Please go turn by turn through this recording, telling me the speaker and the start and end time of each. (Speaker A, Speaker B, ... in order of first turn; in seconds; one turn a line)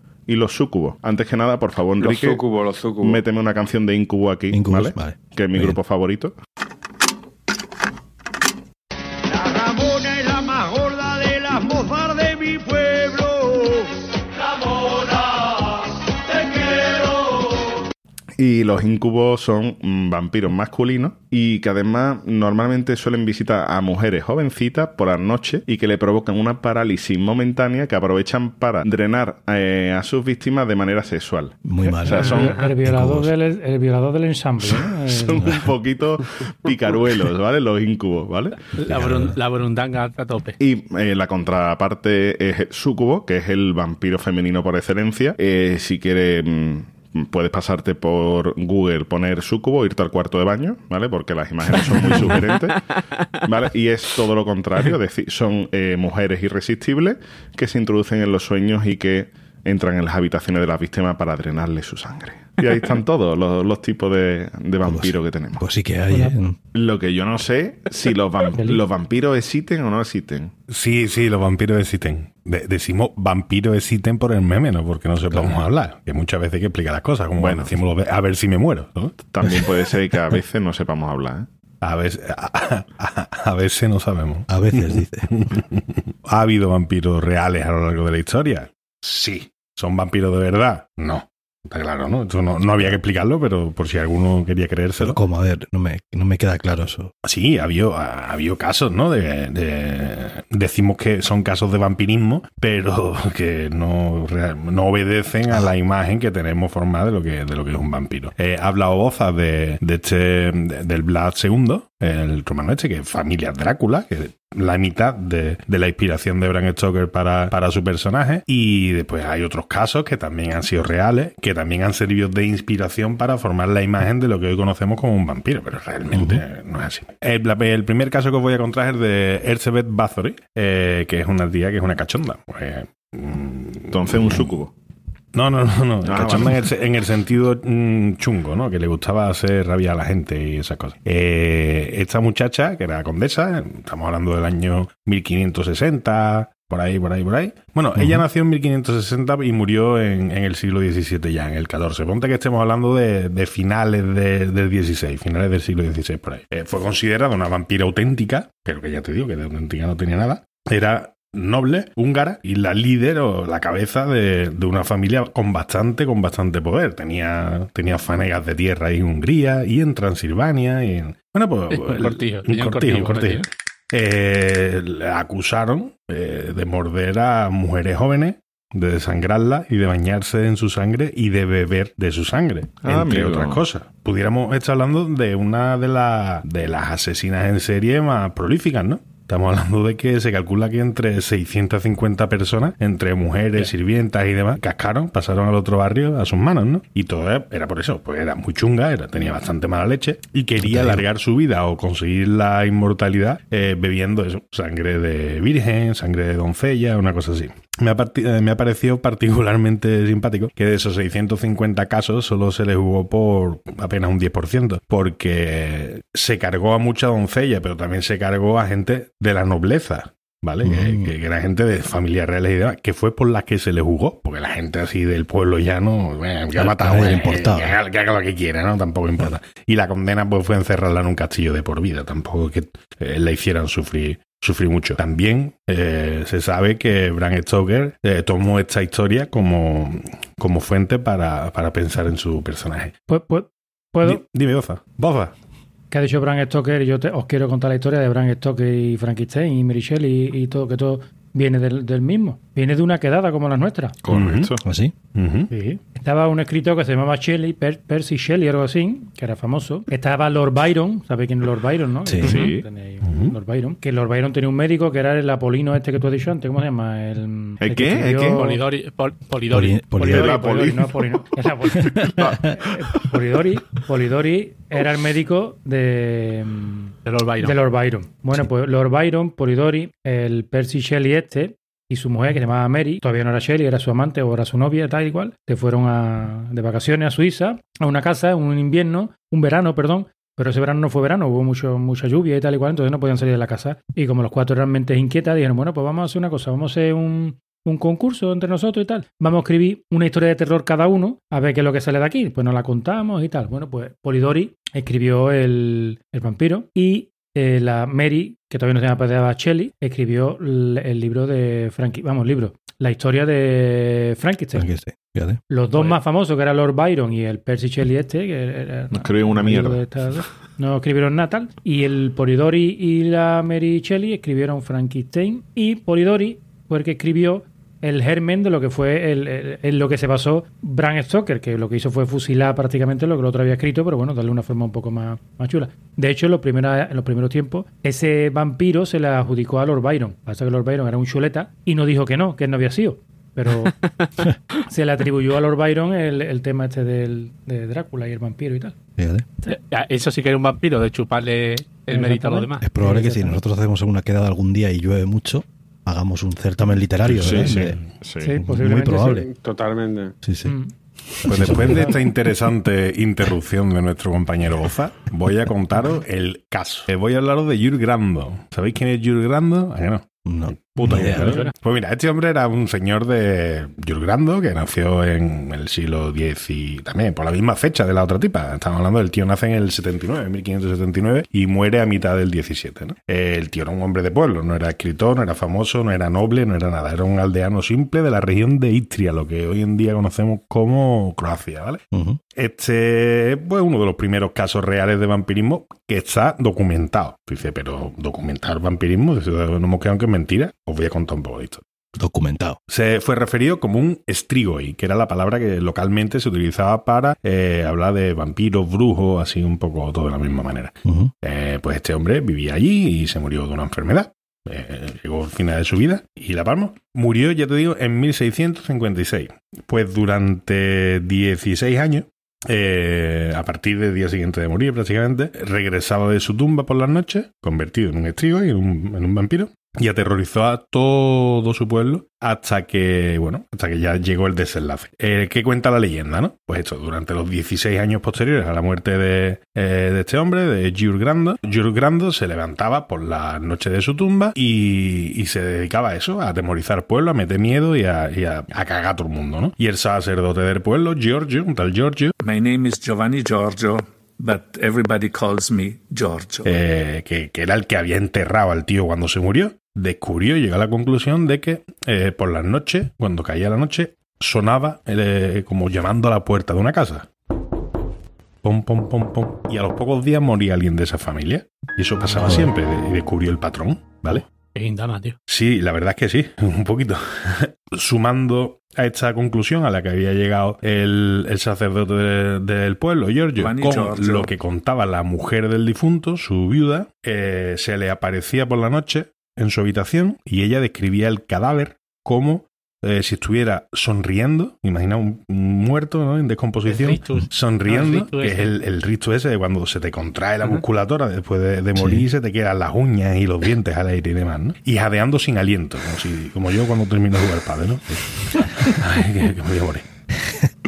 Speaker A: 0.3-2.4
Speaker B: 2.0-3.2
Speaker A: 3.0-6.3
Speaker C: 4.5-5.8
Speaker B: 9.4-13.8
Speaker A: 18.4-32.5
Speaker C: 31.6-33.3
Speaker D: 31.8-35.7
Speaker E: 32.2-32.7
Speaker A: 35.0-38.6
Speaker E: 38.8-40.6
Speaker C: 38.9-39.4
Speaker A: 40.6-52.8
Speaker E: 51.7-53.2
Speaker A: 53.4-65.6
Speaker C: 64.8-66.6
Speaker D: 66.1-66.3
Speaker A: 66.7-70.5
Speaker D: 68.5-68.8
Speaker F: 70.7-79.6
Speaker C: 75.3-75.6
Speaker A: 77.4-77.7
Speaker A: 79.3-81.5
Speaker F: 81.8-95.2
Speaker C: 84.5-85.5
Speaker C: 95.0-97.1
Speaker F: 97.2-134.5
Speaker C: 126.1-126.4
Speaker A: 133.9-134.7
Speaker F: 135.3-242.9
Speaker A: 136.0-136.6
Speaker C: 148.0-148.2
Speaker E: 171.7-173.5
Speaker A: 182.8-183.6
Speaker C: 200.6-201.1
Speaker C: 220.6-221.1
Speaker C: 226.5-227.7
Speaker D: 243.1-244.2
Speaker F: 244.0-245.3
Speaker D: 245.9-253.9
Speaker A: 254.0-254.6
Speaker F: 254.1-254.5
Speaker C: 254.6-254.9
Speaker F: 255.1-255.5
Speaker D: 255.5-268.6
Speaker C: 262.0-262.4
Speaker A: 262.2-262.6
Speaker E: 262.2-262.5
Speaker F: 263.0-263.3
Speaker A: 267.6-268.4
Speaker E: 268.3-270.0
Speaker C: 269.5-270.4
Speaker D: 269.9-314.7
Speaker A: 270.1-271.2
Speaker C: 271.7-272.6
Speaker A: 271.8-273.1
Speaker E: 277.0-277.6
Speaker C: 314.5-315.4
Speaker D: 315.5-343.8
Speaker A: 318.9-319.8
Speaker E: 343.6-344.1
Speaker D: 344.7-348.8
Speaker C: 349.0-349.2
Speaker E: 349.5-352.6
Speaker D: 351.9-353.4
Speaker C: 352.6-357.8
Speaker F: 357.0-357.9
Speaker A: 357.1-358.3
Speaker D: 358.2-359.2
Speaker C: 358.4-359.3
Speaker B: 359.0-360.1
Speaker C: 360.2-360.6
Speaker D: 360.4-360.7
Speaker C: 361.2-362.0
Speaker F: 361.2-391.8
Speaker D: 361.4-362.0
Speaker C: 370.2-371.4
Speaker D: 370.8-371.5
Speaker C: 391.9-392.2
Speaker F: 392.3-401.6
Speaker C: 402.0-402.6
Speaker F: 402.7-452.1
Speaker C: 410.8-411.1
Speaker G: 452.2-456.6
Speaker F: 456.4-467.1
Speaker F: 468.4-474.2
Speaker C: 472.2-472.5
Speaker E: 474.5-475.2
Speaker F: 475.3-509.8
Speaker G: 483.4-484.3
Speaker E: 496.6-498.5
Speaker C: 501.7-502.0